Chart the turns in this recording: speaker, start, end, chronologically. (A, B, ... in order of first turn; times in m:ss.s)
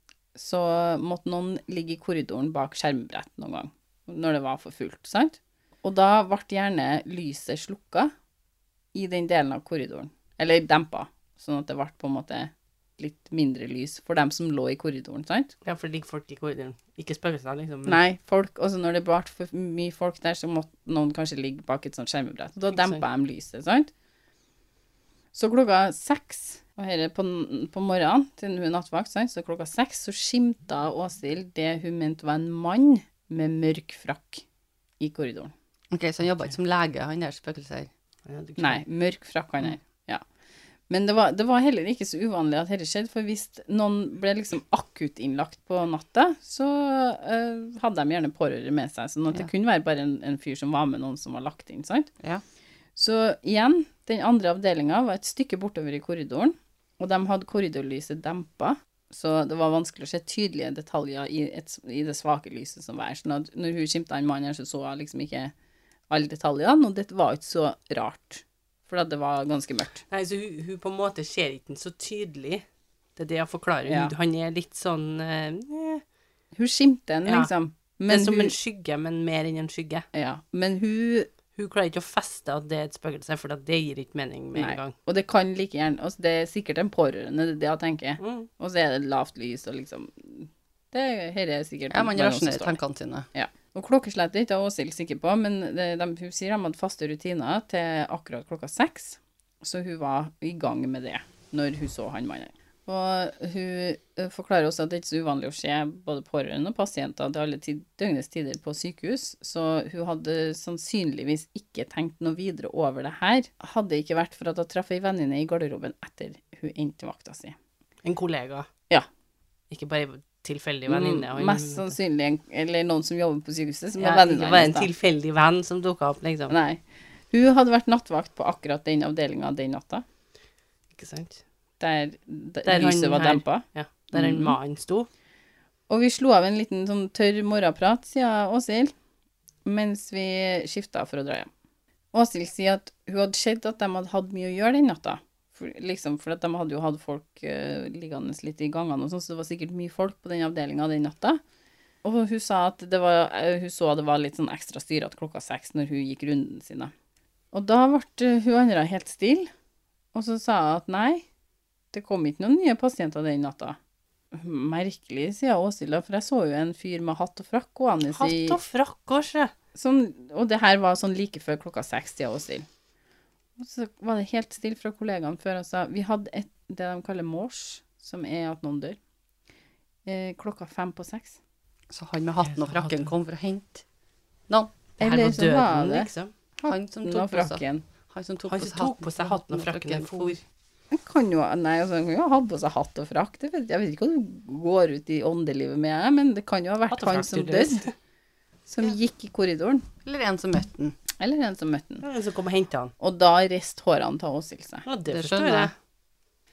0:00.3-0:08.1 A
0:08.9-0:15.5 A
0:15.6-0:18.0 B
0:17.8-0:23.9 A
0:22.7-0:23.0 B
0:25.3-0:34.4 A
0:35.0-0:35.5 A
0:35.9-0:37.9 C
0:38.2-0:38.8 B
0:38.6-0:40.2 A
0:40.9-0:52.1 A
0:53.0-1:05.5 A
1:06.1-1:10.0 A
1:10.1-1:12.6 B
1:13.2-1:16.0 B
1:13.9-1:14.1 A
1:16.5-1:18.5 A
1:18.1-1:20.0 B
1:20.1-1:21.3 A
1:21.6-1:24.9 B
1:24.5-1:32.8 A
1:28.2-1:28.5 B
1:31.9-1:33.3 C
1:33.3-1:57.6 A
1:58.0-1:58.7 B
1:59.7-2:01.9 B
2:00.9-2:04.9 A
2:04.0-2:06.5 B
2:06.5-2:10.0 A
2:11.0-2:11.4 B
2:11.8-2:14.6 A
2:12.6-2:15.1 B
2:15.9-2:18.9 A
2:19.6-2:21.5 A
2:22.1-2:31.4 A
2:32.0-2:36.9 A
2:37.5-2:39.5 A
2:40.1-2:41.2 A
2:41.9-2:43.8 A
2:44.3-2:48.6 A
2:48.1-2:49.5 B
2:49.7-2:52.6 A
2:53.6-2:59.0 A
3:00.0-3:01.4 A
3:01.9-3:03.8 C
3:02.4-3:03.1 B
3:05.0-3:06.1 A
3:05.0-3:06.3 B
3:06.6-3:07.8 A
3:06.6-3:10.4 C
3:08.5-3:10.4 B
3:10.9-3:17.8 A
3:16.9-3:17.9 B
3:18.7-3:19.8 A
3:20.0-3:21.0 C
3:21.2-3:22.0 A
3:22.0-3:22.9 B
3:23.0-3:24.8 A
3:24.8-3:25.7 B
3:25.1-3:25.7 C